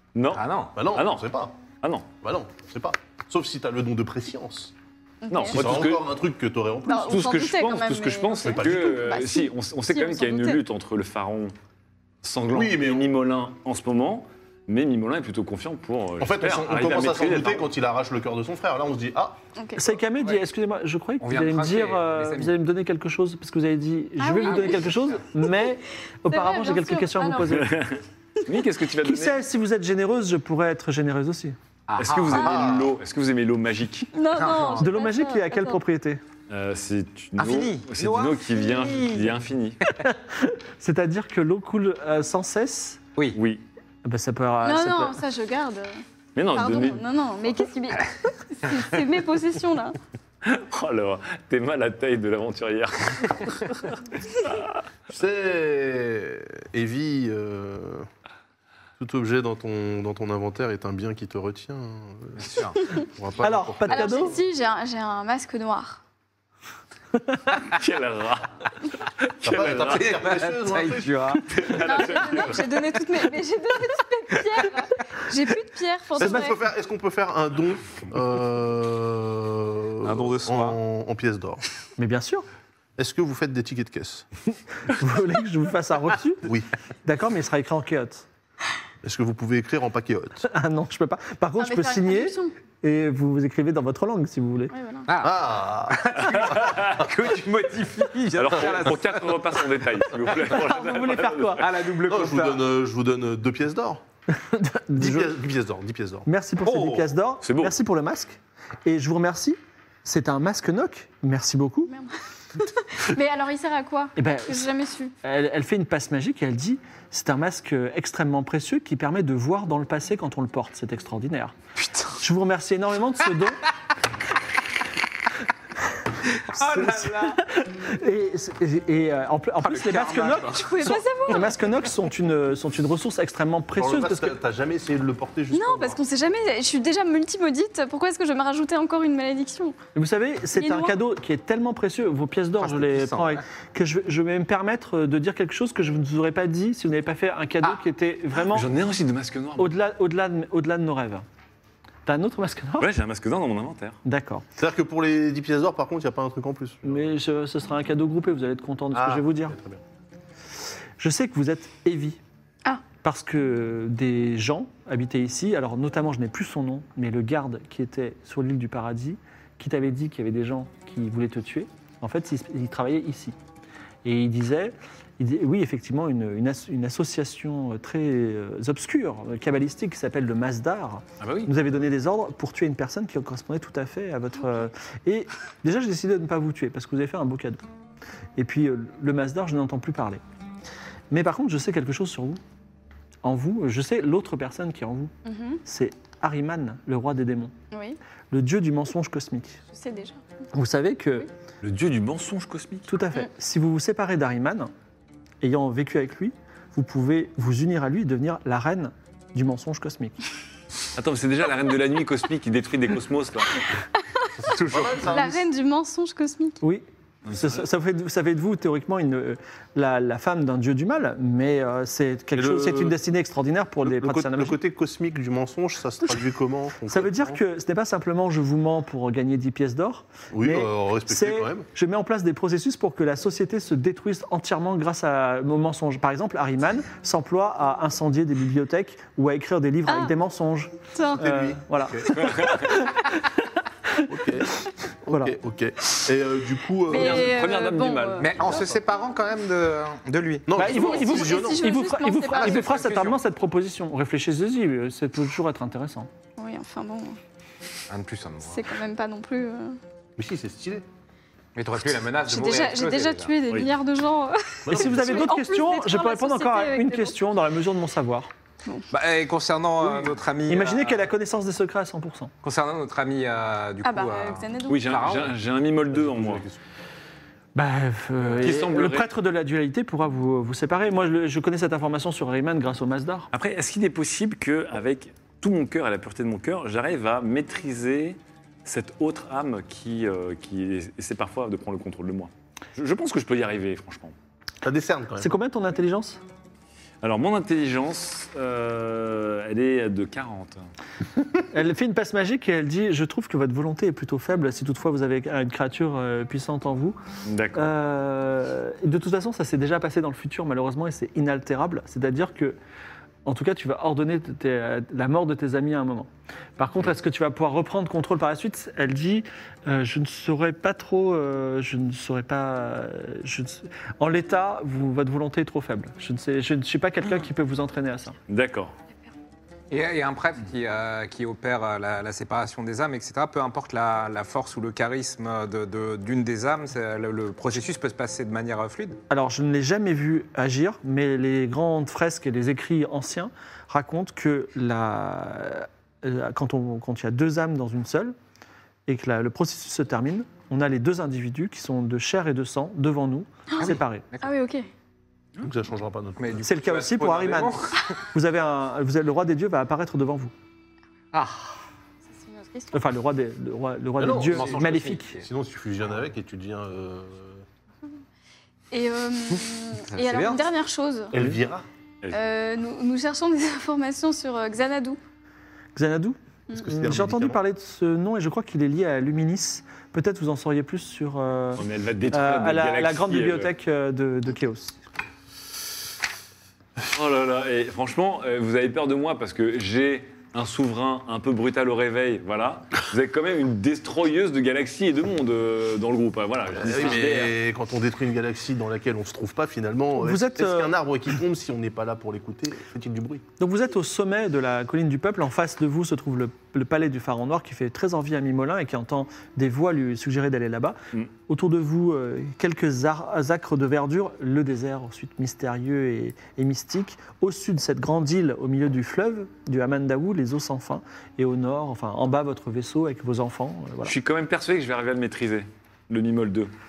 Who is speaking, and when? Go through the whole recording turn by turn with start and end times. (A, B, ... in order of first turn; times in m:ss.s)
0:00.2-0:01.3 A
0:00.3-0:00.8 B
0:00.8-0:01.5 C
0:01.8-0:02.1 A
0:02.2-0:04.7 C
0:05.2-0:05.9 D
0:05.3-0:06.0 A
0:05.5-0:07.3 C
0:06.8-0:10.6 D
0:07.1-0:11.5 A
0:08.4-0:09.2 C
0:12.2-0:17.7 A
0:12.5-0:13.1 C
0:16.2-0:19.4 C
0:19.6-0:19.8 D
0:19.8-0:27.8 E
0:21.2-0:22.6 B
0:24.2-0:25.7 D
0:24.5-0:25.2 B
0:26.3-0:27.6 D
0:27.5-0:29.4 A
0:29.0-0:31.6 E
0:31.9-0:32.8 B
0:32.0-0:34.1 A
0:32.3-0:32.9 C
0:34.1-0:35.8 D
0:34.4-0:34.9 B
0:34.8-0:36.2 E
0:36.5-0:39.8 A
0:37.4-0:39.4 B
0:40.0-0:43.0 E
0:43.3-0:43.6 A
0:44.0-0:45.2 E
0:44.6-0:45.9 D
0:46.4-0:47.0 A
0:46.5-0:50.0 D
0:50.4-0:53.8 A
0:55.1-0:58.1 C
0:59.0-1:04.4 C
1:02.4-1:02.8 B
1:03.4-1:04.3 E
1:03.9-1:06.0 D
1:07.6-1:08.7 A
1:09.2-1:10.3 A
1:09.4-1:11.8 C
1:09.6-1:11.9 B
1:11.5-1:12.6 A
1:11.8-1:16.6 D
1:16.2-1:21.6 C
1:16.2-1:16.5 E
1:20.0-1:20.8 A
1:22.0-1:22.5 E
1:23.0-1:24.3 C
1:24.7-1:26.5 E
1:27.0-1:28.3 E
1:29.0-1:30.5 C
1:30.5-1:34.7 E
1:31.6-1:32.5 D
1:34.7-1:35.1 D
1:35.1-1:39.7 B
1:35.2-1:37.0 C
1:36.6-1:37.0 A
1:38.4-1:41.7 A
1:40.5-1:41.7 E
1:41.6-1:42.7 B
1:42.1-1:44.0 C
1:44.3-1:45.4 E
1:45.0-1:46.3 C
1:46.3-1:51.9 E
1:46.7-1:47.0 B
1:47.4-1:47.7 A
1:51.9-1:55.1 D
1:54.2-1:54.7 E
1:55.2-2:01.5 E
2:02.2-2:03.6 E
2:06.4-2:07.4 B
2:06.5-2:14.4 E
2:09.6-2:10.9 B
2:10.5-2:11.5 D
2:13.8-2:16.0 C
2:15.5-2:19.8 D
2:20.0-2:28.7 E
2:20.6-2:21.0 D
2:22.6-2:23.4 B
2:28.4-2:29.8 A
2:29.6-2:31.2 E
2:32.1-2:32.9 E
2:32.8-2:34.0 A
2:34.0-2:34.4 E
2:34.6-2:37.0 C
2:36.8-2:39.6 E
2:38.9-2:39.8 C
2:41.0-2:42.2 E
2:43.0-2:53.4 E
2:54.0-3:07.6 E
3:01.2-3:01.5 A
3:08.4-3:10.2 E
3:11.1-3:12.4 E
3:13.2-3:15.1 E
3:15.2-3:15.6 D
3:15.6-3:17.5 E
3:17.7-3:18.0 D
3:18.3-3:19.6 E
3:19.7-3:20.2 D
3:20.5-3:21.3 E
3:21.6-3:22.9 A
3:22.9-3:24.7 E
3:25.4-3:30.2 E
3:31.0-3:33.7 A
3:34.4-3:35.4 C
3:34.7-3:35.0 A
3:35.1-3:36.6 D
3:36.6-3:44.6 E
3:37.3-3:37.6 A
3:42.4-3:43.0 C
3:43.9-3:47.4 C
3:46.9-4:04.1 E
3:50.3-3:51.7 C
3:59.9-4:00.1 D
4:00.9-4:01.2 D
4:01.2-4:02.7 C
4:02.2-4:02.5 A
4:04.1-4:07.4 C
4:05.1-4:05.4 E
4:06.9-4:08.4 D
4:06.9-4:08.6 A
4:08.2-4:10.9 B
4:08.4-4:08.8 C
4:10.5-4:11.7 C
4:10.6-4:16.1 E
4:10.6-4:12.8 D
4:12.3-4:13.2 B
4:16.4-4:17.2 D
4:17.9-4:18.8 B
4:18.4-4:19.8 D
4:20.2-4:20.8 C
4:21.6-4:23.4 B
4:22.3-4:27.2 D
4:24.7-4:25.2 C
4:24.7-4:28.3 E
4:28.9-4:31.1 B
4:29.9-4:32.3 E
4:32.4-4:35.4 B
4:33.8-4:34.9 D
4:34.7-4:36.4 A
4:35.9-4:36.6 C
4:37.6-4:43.3 E
4:38.4-4:39.1 A
4:43.3-4:54.2 A
4:54.6-4:55.3 C
4:55.2-4:56.2 E
4:57.0-5:00.7 A
5:01.5-5:07.0 E
5:07.3-5:07.7 A
5:07.6-5:12.6 E
5:13.3-5:28.2 E
5:28.3-5:28.7 A
5:29.7-5:39.0 B
5:39.1-5:48.2 E
5:48.9-5:54.1 E
5:53.5-5:54.6 D
5:53.6-5:54.3 B
5:55.4-5:56.4 C
5:56.2-5:57.9 B
5:56.4-5:57.6 E
5:58.1-6:00.3 E
6:01.1-6:01.6 B
6:02.1-6:02.7 D
6:02.7-6:05.2 E
6:04.0-6:07.4 C
6:04.2-6:05.3 B
6:08.7-6:11.1 D
6:09.9-6:10.5 B
6:11.1-6:11.6 C
6:12.1-6:15.0 D
6:15.8-6:24.8 E
6:16.5-6:17.4 C
6:21.6-6:23.5 A
6:26.8-6:37.4 A
6:36.5-6:43.2 C
6:40.0-6:40.7 E
6:43.4-7:04.0 E
7:03.8-7:06.5 A